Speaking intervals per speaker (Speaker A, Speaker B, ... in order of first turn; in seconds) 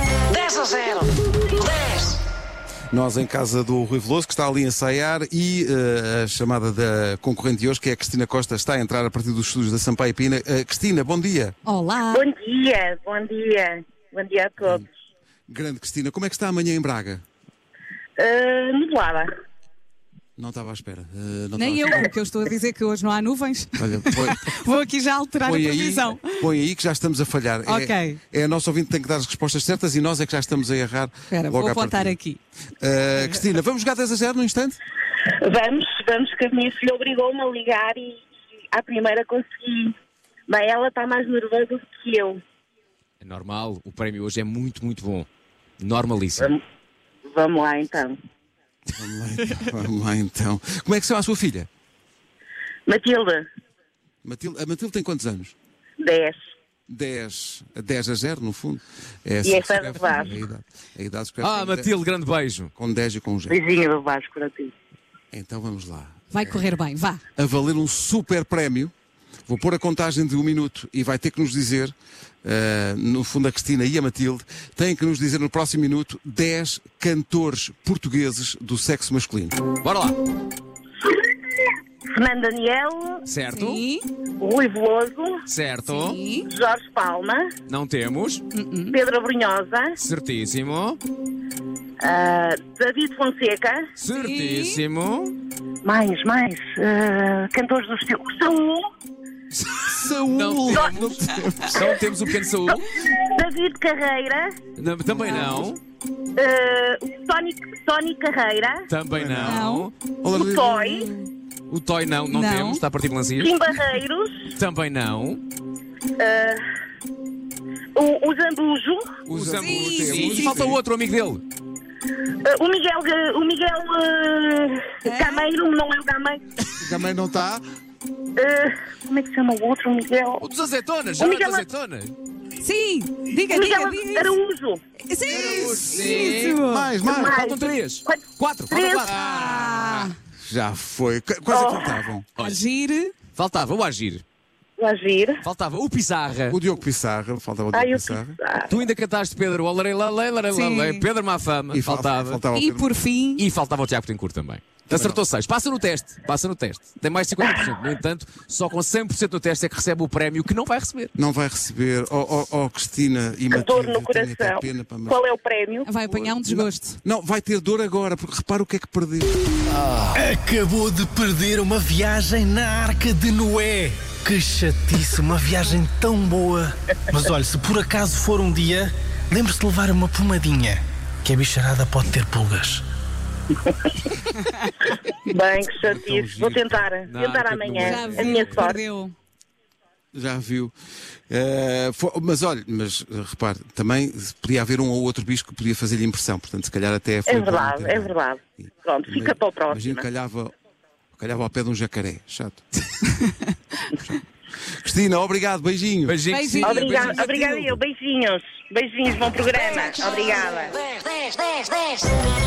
Speaker A: 0.3-2.2, 210.7-212.1
Speaker B: 2.9-11.5, 15.5-17.2, 20.4-22.1, 23.8-24.4, 25.4-32.1, 32.8-34.8, 48.9-51.7, 54.2-55.5, 56.9-61.9, 62.8-63.6, 65.3-66.6, 67.3-68.9, 69.5-79.6, 99.7-101.9, 105.2-105.5, 109.2-109.7, 110.2-111.3, 119.2-120.8, 126.8-127.6, 136.5-137.4, 139.4-142.3, 146.5-148.3, 151.7-152.9, 154.9-155.2, 161.2-165.2, 166.1-169.3, 185.8-186.9, 190.1-190.7, 191.3-200.5, 201.1-202.6, 203.9-204.2, 204.8-206.2
Speaker C: 11.7-12.2, 21.6-26.4, 27.7-28.2, 31.3-32.4, 66.3-67.2, 83.5-84.0, 85.9-86.5, 88.5-89.0, 94.1-94.8, 109.4-109.9, 112.3-112.8, 119.6-120.6, 125.0-125.4, 132.6-134.4, 135.1-136.9, 139.1-140.1, 142.4-143.1, 150.5-151.1, 152.5-153.4, 165.8-167.0, 187.8-189.1, 206.3-207.2
Speaker D: 12.1-14.9, 18.2-19.3, 35.4-39.9, 40.5-42.4, 47.2-48.2, 52.9-53.5, 56.0-56.4, 59.4-60.4, 63.5-64.7, 82.1-83.2, 84.4-85.4, 86.5-87.5, 88.9-90.0, 92.0-93.8, 95.8-98.9, 102.9-104.5, 106.3-108.9, 110.3-111.1, 113.4-114.5, 116.2-116.6, 118.0-119.2, 122.4-126.4, 128.3-130.4, 131.2-131.6, 133.5-134.8, 137.0-139.1, 141.5-142.0, 144.8-145.4, 147.7-148.8, 163.5-165.9, 183.7-183.9, 185.0-188.8, 197.3-200.1, 206.6-210.8
Speaker E: 43.2-45.3, 45.8-46.5, 61.4-62.7, 79.8-80.2, 83.2-83.8, 85.5-86.2, 87.7-88.4, 90.0-91.0, 94.0-95.3, 100.3-102.9, 104.8-105.8, 108.9-109.9, 111.7-113.6, 114.5-115.4, 119.3-121.4, 130.4-132.1, 135.3-136.6, 137.2-139.9, 143.3-144.2, 145.4-146.6, 148.7-152.4, 153.3-161.1, 169.8-170.2, 187.1-188.6, 206.1-207.7
Speaker F: 170.1-182.8